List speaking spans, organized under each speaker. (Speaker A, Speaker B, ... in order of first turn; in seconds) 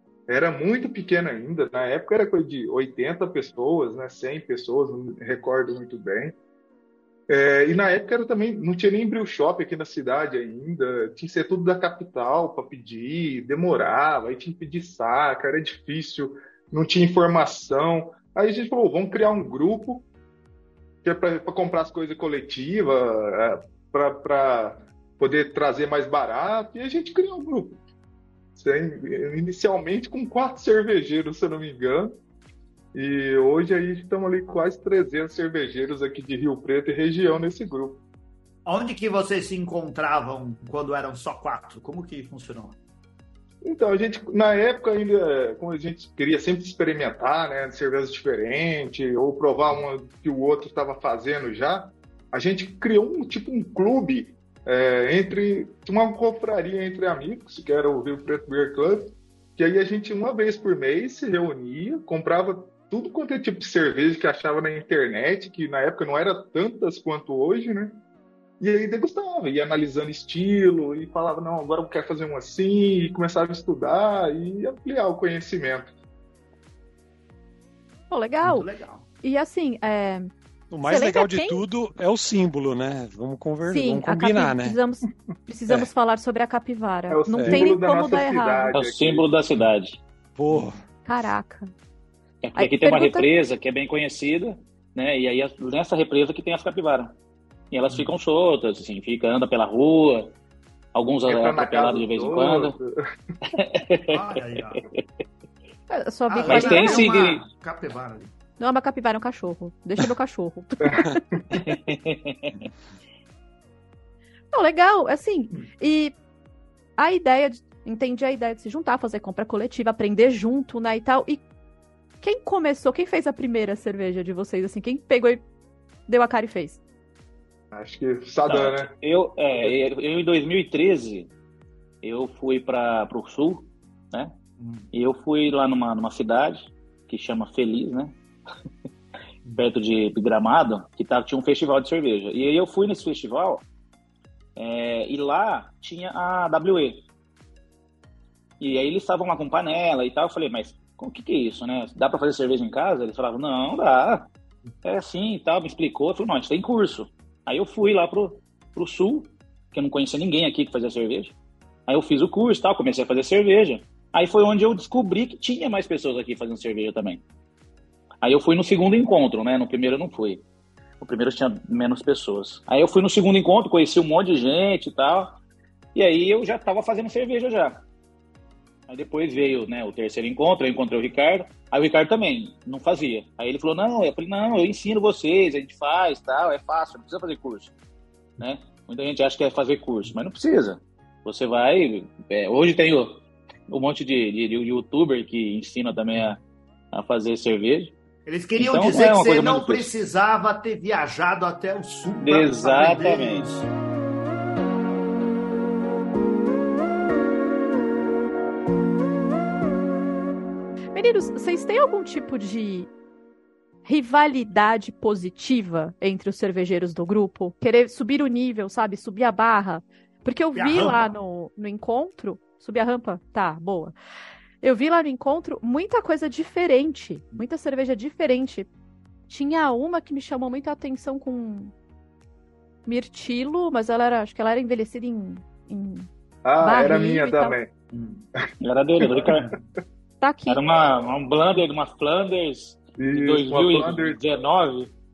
Speaker A: 0.3-6.4, 7.3-20.1, 21.0-27.8, 28.5-32.2, 32.9-38.0, 43.6-68.0, 68.6-75.9, 87.1-89.3, 101.3-103.0, 110.8-111.6, 127.7-128.9, 236.4-237.7, 239.0-239.4, 243.0-244.2
Speaker B: 38.6-42.8, 78.4-79.0, 104.0-104.8, 106.3-108.3, 134.6-134.9, 198.2-203.7, 220.5-221.1, 237.9-238.2
Speaker C: 78.1-78.7, 79.2-81.6, 83.6-88.7, 91.0-91.7, 92.6-93.3, 105.9-107.1, 108.6-111.2, 114.5-116.1, 117.0-121.4, 122.2-125.4, 126.1-126.8, 210.9-212.9, 213.8-223.9, 224.6-228.7, 229.3-231.7, 232.8-237.6, 240.2-240.6
Speaker D: 80.7-84.8, 87.3-87.7, 90.3-90.8
Speaker E: 88.7-90.0, 92.4-97.1, 97.7-100.3, 100.9-102.8, 103.5-105.0, 106.5-107.5, 111.5-112.7, 128.5-131.3, 132.0-134.3, 134.9-138.1, 139.5-143.6, 144.6-147.0, 148.6-154.3, 154.8-161.3, 161.9-167.2, 168.2-170.4, 171.0-175.4, 175.9-177.8, 178.9-187.7, 188.4-196.4, 196.9-197.9, 198.6-199.9, 202.2-203.5, 238.6-239.5, 240.5-244.9